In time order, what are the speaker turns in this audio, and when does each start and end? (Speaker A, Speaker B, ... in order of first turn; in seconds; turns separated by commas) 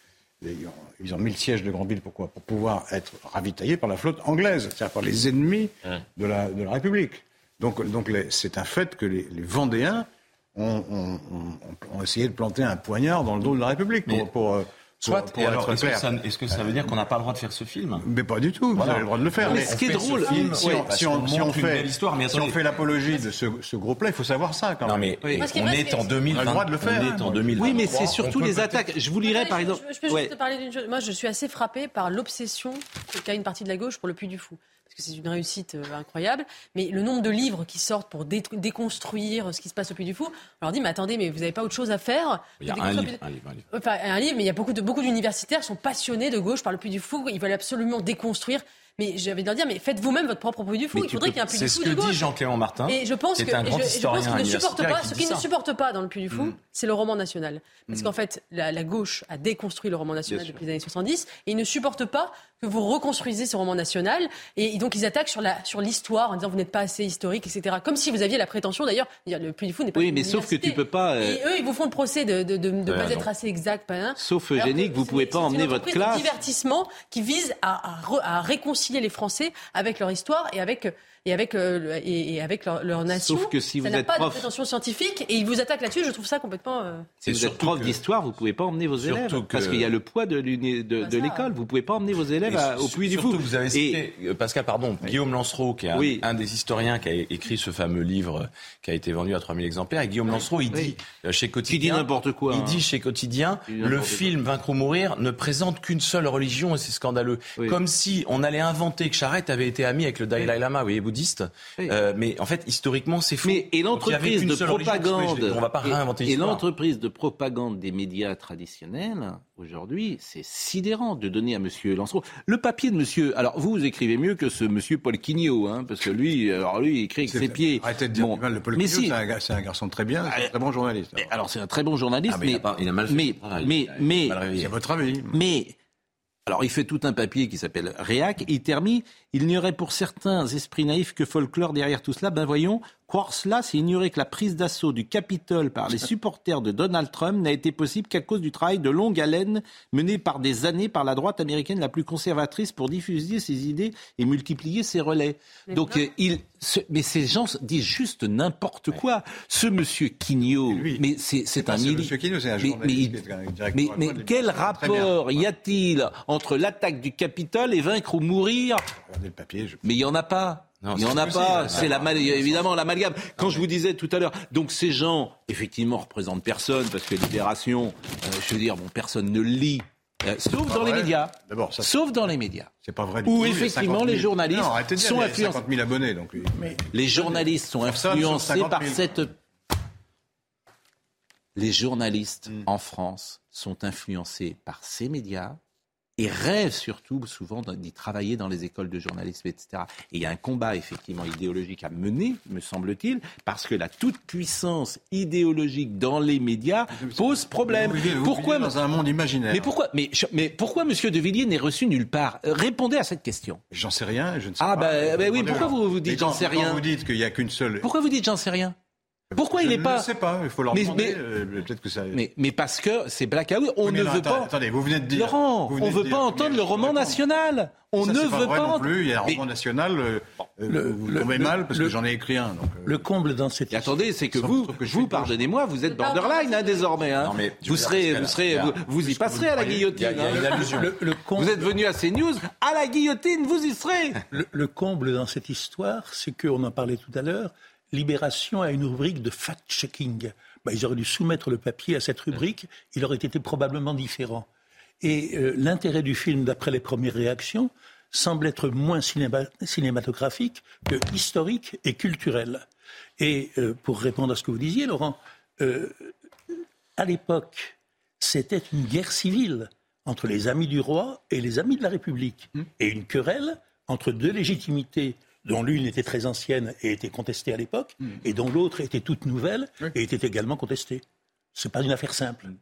Speaker A: 0.4-16.9, Speaker B: 15.0-18.1, Speaker A: 18.0-25.2, Speaker B: 18.7-22.6, Speaker C: 19.4-20.9, Speaker B: 24.8-28.8, Speaker C: 25.2-25.5, Speaker D: 25.4-26.2, Speaker A: 26.3-28.0, Speaker C: 27.6-30.3, Speaker D: 29.2-52.2, Speaker B: 42.6-43.6, Speaker C: 50.9-51.4, Speaker B: 51.5-55.5, Speaker D: 52.9-87.1, Speaker C: 70.0-71.4, Speaker B: 72.9-73.3, Speaker C: 74.2-76.3, Speaker C: 83.1-84.5, Speaker B: 87.2-88.0, Speaker C: 87.2-94.0, Speaker B: 89.0-90.0, Speaker D: 91.0-91.5, Speaker B: 92.5-116.7, Speaker C: 95.9-96.2, Speaker C: 101.7-102.8, Speaker C: 103.7-104.4, Speaker C: 113.4-129.2, Speaker A: 127.3-131.3, Speaker C: 130.3-130.5, Speaker C: 131.2-134.4, Speaker B: 132.3-134.7, Speaker A: 134.5-135.3, Speaker C: 135.3-135.8, Speaker C: 136.5-163.2, Speaker D: 155.7-156.1, Speaker A: 160.7-161.0, Speaker A: 161.6-165.4, Speaker C: 163.7-168.9, Speaker A: 169.0-169.8, Speaker C: 169.8-182.7, Speaker B: 170.8-172.6, Speaker A: 171.1-172.6, Speaker A: 180.7-181.9, Speaker A: 182.8-189.1, Speaker C: 183.3-185.7, Speaker C: 186.9-189.3, Speaker C: 191.6-195.6, Speaker C: 196.2-208.7, Speaker A: 206.9-209.7, Speaker C: 209.5-213.6, Speaker A: 213.7-217.9, Speaker C: 214.6-216.8, Speaker C: 217.8-218.8, Speaker A: 219.3-222.2, Speaker C: 219.4-220.1, Speaker C: 220.7-221.2, Speaker C: 222.1-224.5, Speaker A: 223.8-227.2, Speaker C: 225.1-229.4, Speaker A: 228.0-233.1, Speaker E: 230.7-232.0, Speaker E: 232.8-233.9, Speaker C: 233.7-244.2, Speaker A: 234.3-235.4, Speaker D: 235.8-237.1, Speaker B: 237.1-241.0, Speaker E: 240.3-241.6, Speaker E: 244.3-254.5, Speaker E: 255.0-262.6, Speaker E: 263.2-266.1, Speaker E: 267.0-281.0, Speaker E: 281.5-282.5